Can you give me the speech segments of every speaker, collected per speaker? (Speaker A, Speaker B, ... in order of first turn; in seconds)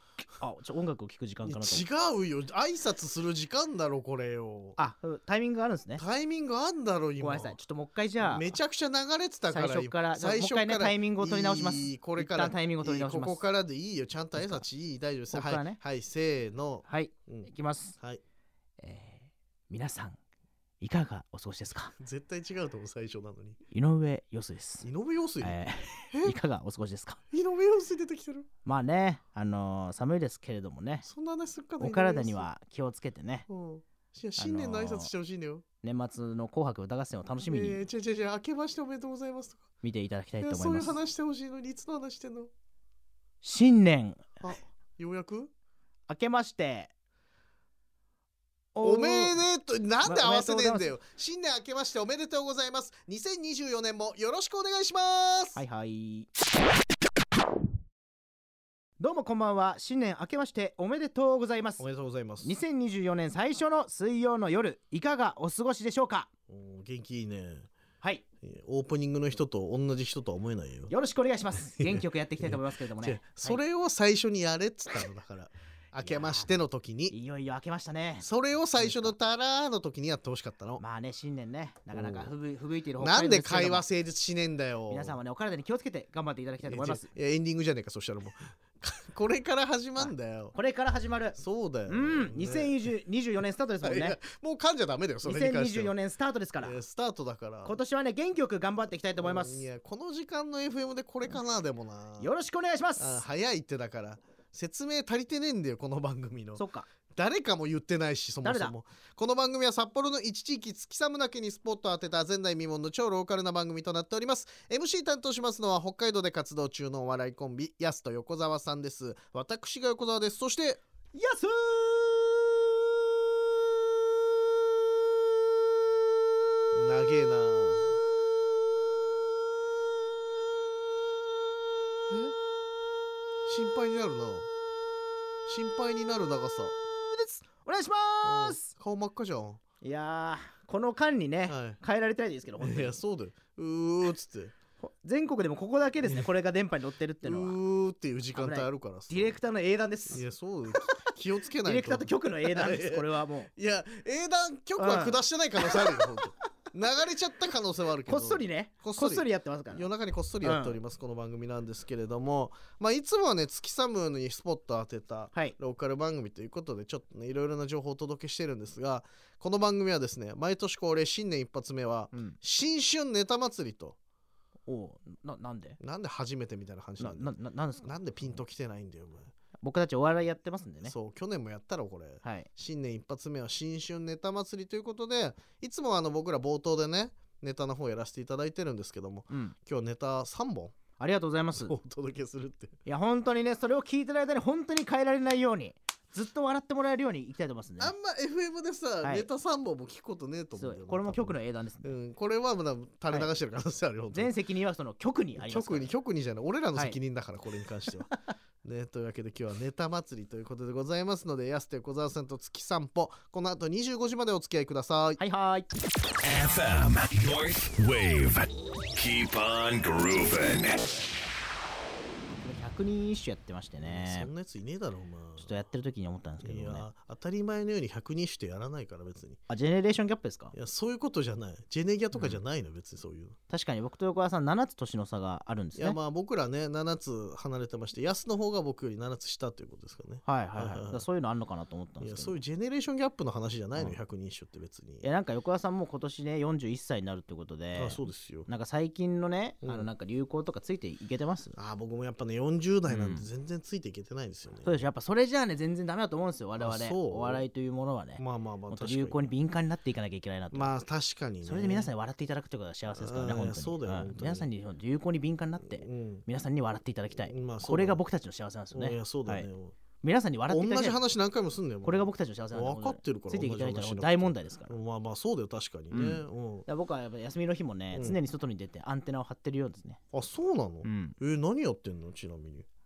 Speaker A: 0.4-1.9, 4.8-6.0, 7.2-8.6, 9.5-13.5, 14.4-14.7, 15.3-15.8, 16.9-18.0, 18.8-20.2, 20.8-21.9, 23.7-24.9, 25.4-27.2, 28.6-31.1, 31.8-33.5, 34.4-35.1, 35.8-37.8, 39.8-41.0, 43.4-44.2, 46.1-46.9, 48.7-49.4, 50.0-50.9, 55.6-56.3, 59.0-61.8, 62.4-66.3, 70.9-73.6, 76.0-79.2, 80.8-83.8, 84.9-87.1, 90.0-94.2, 95.2-96.8, 97.7-99.7, 102.2-103.2, 106.6-106.9, 108.4-108.7, 121.1-123.1, 136.7-138.7, 139.8-143.0, 144.8-147.6, 148.4-151.0, 151.6-153.5, 154.8-156.5, 158.1-159.9, 160.4-160.8, 172.1-172.4, 174.7-175.8, 177.0-177.9, 179.6-180.9, 182.2-182.5, 189.3-189.6, 191.0-191.8, 192.9-197.9, 200.5-201.9, 204.1-205.9, 215.2-215.7, 222.3-224.3, 225.4-226.9, 229.5-230.5, 232.1-232.4, 233.5-236.0, 240.3-242.4, 245.0-251.6, 252.9-253.3, 254.6-260.7, 261.4-269.5, 270.0-271.0, 271.8-274.7, 275.9-280.0, 280.8-281.1
Speaker B: 1.4-4.8, 6.0-7.6, 8.2-18.2, 22.0-23.6, 24.8-25.6, 27.3-28.5, 31.1-32.5, 33.5-35.6, 37.5-39.6, 40.4-42.5, 44.4-45.5, 48.8-55.6, 61.8-62.6, 66.5-67.7, 68.4-70.9, 71.8-77.1, 78.2-80.8, 81.9-82.3, 83.0-85.2, 86.7-90.5, 91.4-92.8, 93.8-96.0, 96.6-97.8, 99.2-102.3, 103.0-106.6, 107.2-120.8, 126.7-128.0, 132.1-132.4, 133.5-134.5, 135.5-136.8, 138.2-139.6, 141.5-141.8, 142.6-144.6, 147.2-149.4, 150.1-174.0, 175.8-179.3, 180.8-190.8, 191.5-192.8, 197.8-204.3, 205.4-208.1, 208.6-215.2, 223.8-225.5, 226.4-229.4, 230.5-233.4, 235.8-241.1, 242.0-245.1, 247.7-248.5, 251.6-254.8, 256.6-257.4, 258.2-259.3, 260.5-261.9, 262.9-264.5, 265.7-266.2, 267.1-268.0, 268.7-269.8, 270.5-276.7, 277.9-278.2, 280.1-282.7
Speaker C: 216.2-220.9